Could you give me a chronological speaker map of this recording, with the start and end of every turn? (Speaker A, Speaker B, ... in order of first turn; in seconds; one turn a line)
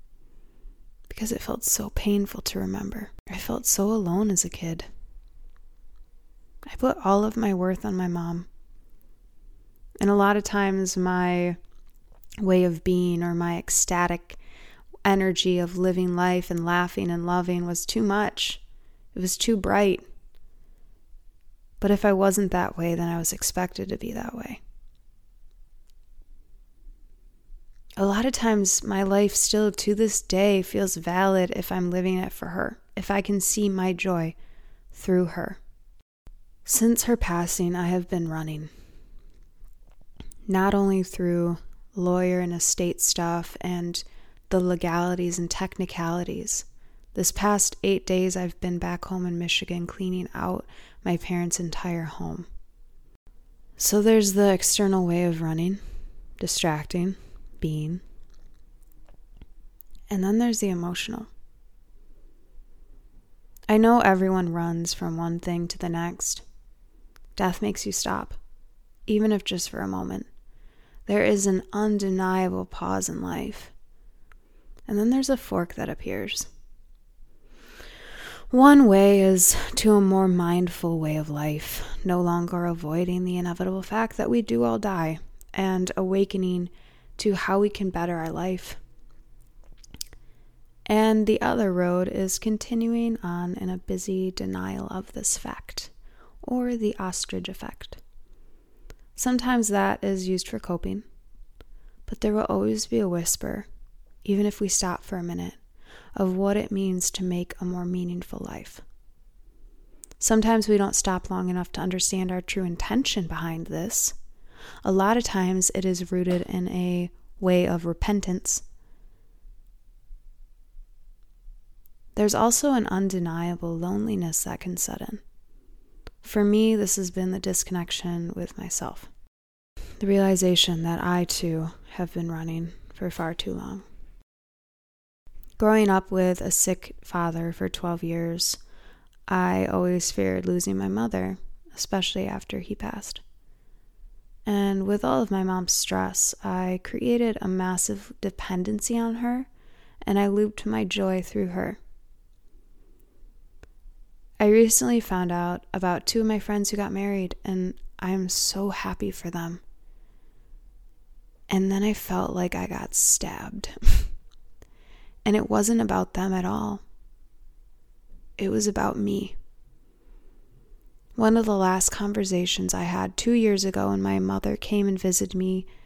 Speaker A: 1.1-4.9
Speaker A: 6.7-8.5
Speaker A: 10.0-11.6
Speaker A: 12.4-14.4
Speaker A: 15.0-18.6
Speaker A: 19.1-20.0
Speaker A: 21.8-24.6
Speaker A: 28.0-34.4
Speaker A: 34.9-35.6
Speaker A: 36.6-38.7
Speaker A: 40.5-52.5
Speaker A: 53.8-55.8
Speaker A: 56.4-58.0
Speaker A: 60.1-61.3
Speaker A: 63.7-66.4
Speaker A: 67.3-68.4
Speaker A: 69.1-70.3
Speaker A: 71.0-73.7
Speaker A: 74.9-76.5
Speaker A: 78.5-88.8
Speaker A: 90.9-95.9
Speaker A: 96.4-98.0
Speaker A: 99.2-101.0
Speaker A: 102.1-103.7
Speaker A: 104.2-105.6
Speaker A: 106.2-108.8
Speaker A: 110.2-114.2
Speaker A: 114.8-118.6
Speaker A: 122.1-125.2
Speaker A: 126.2-129.1
Speaker A: 130.0-133.8
Speaker A: 135.6-138.6
Speaker A: 139.3-143.2
Speaker A: 144.4-149.5
Speaker A: 150.0-151.8
Speaker A: 154.4-159.6
Speaker A: 161.5-164.1
Speaker A: 165.2-166.8
Speaker A: 168.4-169.4
Speaker A: 171.2-175.7